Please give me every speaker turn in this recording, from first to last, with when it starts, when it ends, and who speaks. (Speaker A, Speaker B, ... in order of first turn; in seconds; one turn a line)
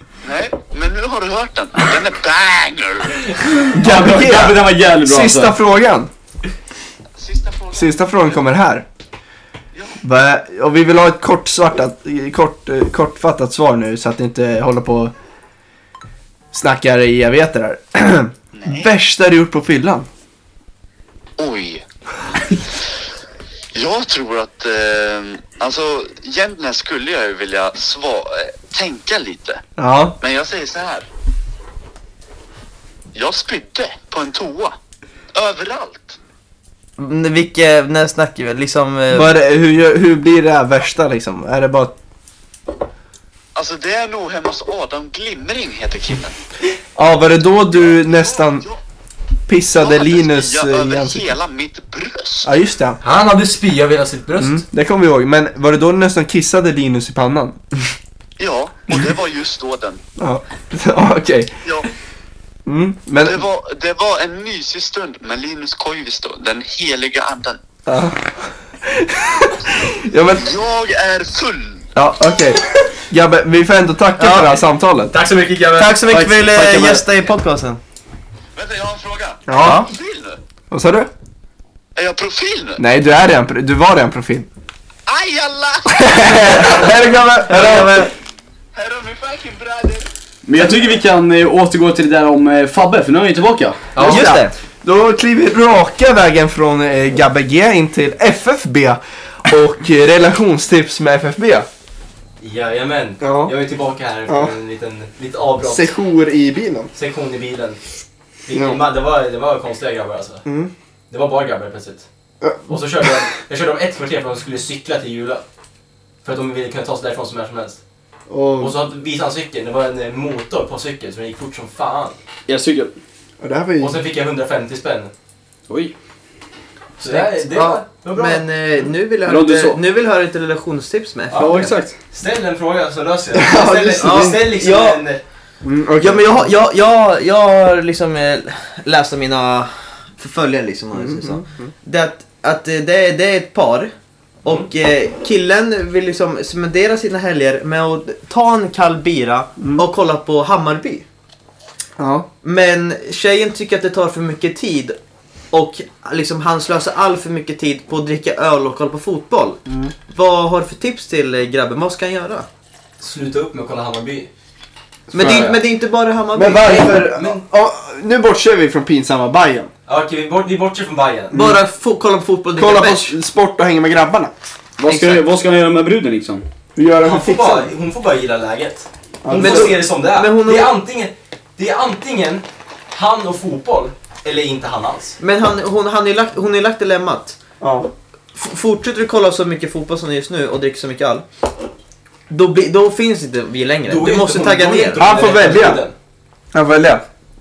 Speaker A: 0.2-3.7
Speaker B: 3.7-6.1
Speaker C: 3.7-5.5
Speaker A: 7.2-7.9
Speaker B: 7.7-8.9
Speaker B: 10.0-15.1
Speaker B: 16.5-20.1
Speaker A: 18.5-18.8
Speaker A: 21.4-21.8
Speaker A: 23.7-29.6
Speaker B: 29.8-30.2
Speaker A: 30.2-31.1
Speaker A: 33.1-34.7
Speaker A: 35.3-36.2
Speaker D: 37.0-39.3
Speaker B: 39.1-41.9
Speaker A: 43.5-46.4
Speaker B: 47.0-48.6
Speaker A: 47.8-48.8
Speaker B: 49.5-51.3
Speaker A: 49.8-52.5
Speaker B: 52.4-53.0
Speaker E: 53.0-54.6
Speaker B: 54.4-57.6
Speaker A: 58.4-60.0
Speaker B: 60.2-61.6
Speaker B: 62.6-63.4
Speaker A: 63.2-67.6
Speaker B: 67.8-70.5
Speaker A: 70.3-71.9
Speaker B: 71.9-75.1
Speaker D: 74.2-74.5
Speaker E: 75.1-76.8
Speaker D: 75.8-77.8
Speaker A: 78.5-80.4
Speaker B: 79.5-79.9
Speaker D: 79.6-79.9
Speaker B: 80.7-81.1
Speaker A: 82.0-82.8
Speaker B: 82.8-84.5
Speaker A: 85.1-86.9
Speaker B: 85.9-88.1
Speaker D: 87.5-88.1
Speaker A: 88.7-90.0
Speaker C: 90.5-93.9
Speaker E: 93.9-94.3
Speaker B: 94.0-101.7
Speaker D: 94.0-94.5
Speaker F: 102.4-105.9
Speaker B: 103.2-103.5
Speaker B: 104.3-104.5
Speaker B: 105.6-106.9
Speaker F: 106.9-107.8
Speaker F: 108.4-110.4
Speaker B: 108.5-108.8
Speaker B: 110.4-110.7
Speaker F: 111.1-112.0
Speaker B: 112.4-113.0
Speaker F: 112.7-115.4
Speaker F: 116.2-117.8
Speaker B: 118.3-118.8
Speaker F: 118.6-122.2
Speaker C: 122.5-122.9
Speaker B: 123.4-124.0
Speaker F: 123.8-125.1
Speaker C: 125.7-125.9
Speaker F: 127.0-128.5
Speaker D: 127.0-131.8
Speaker C: 129.2-129.8
Speaker F: 131.3-135.2
Speaker C: 131.3-132.0
Speaker B: 133.3-134.4
Speaker D: 134.0-135.0
Speaker B: 135.6-136.5
Speaker D: 136.0-143.9
Speaker B: 140.9-141.7
Speaker D: 144.4-151.1
Speaker B: 149.6-149.8
Speaker B: 152.0-152.3
Speaker D: 152.4-154.9
Speaker D: 155.5-162.5
Speaker B: 159.7-159.9
Speaker F: 163.0-164.3
Speaker B: 165.1-165.6
Speaker D: 165.1-167.0
Speaker F: 165.2-165.5
Speaker B: 166.3-169.7
Speaker F: 166.6-167.4
Speaker F: 169.9-171.4
Speaker B: 171.3-171.6
Speaker D: 171.3-173.2
Speaker B: 172.6-174.3
Speaker C: 174.8-176.4
Speaker D: 174.8-175.2
Speaker B: 176.8-177.7
Speaker F: 177.0-185.2
Speaker B: 179.2-179.8
Speaker D: 179.4-180.7
Speaker D: 185.2-187.4
Speaker B: 187.6-187.9
Speaker D: 188.3-191.2
Speaker D: 192.3-195.0
Speaker F: 193.8-195.9
Speaker B: 195.0-195.8
Speaker B: 196.5-197.0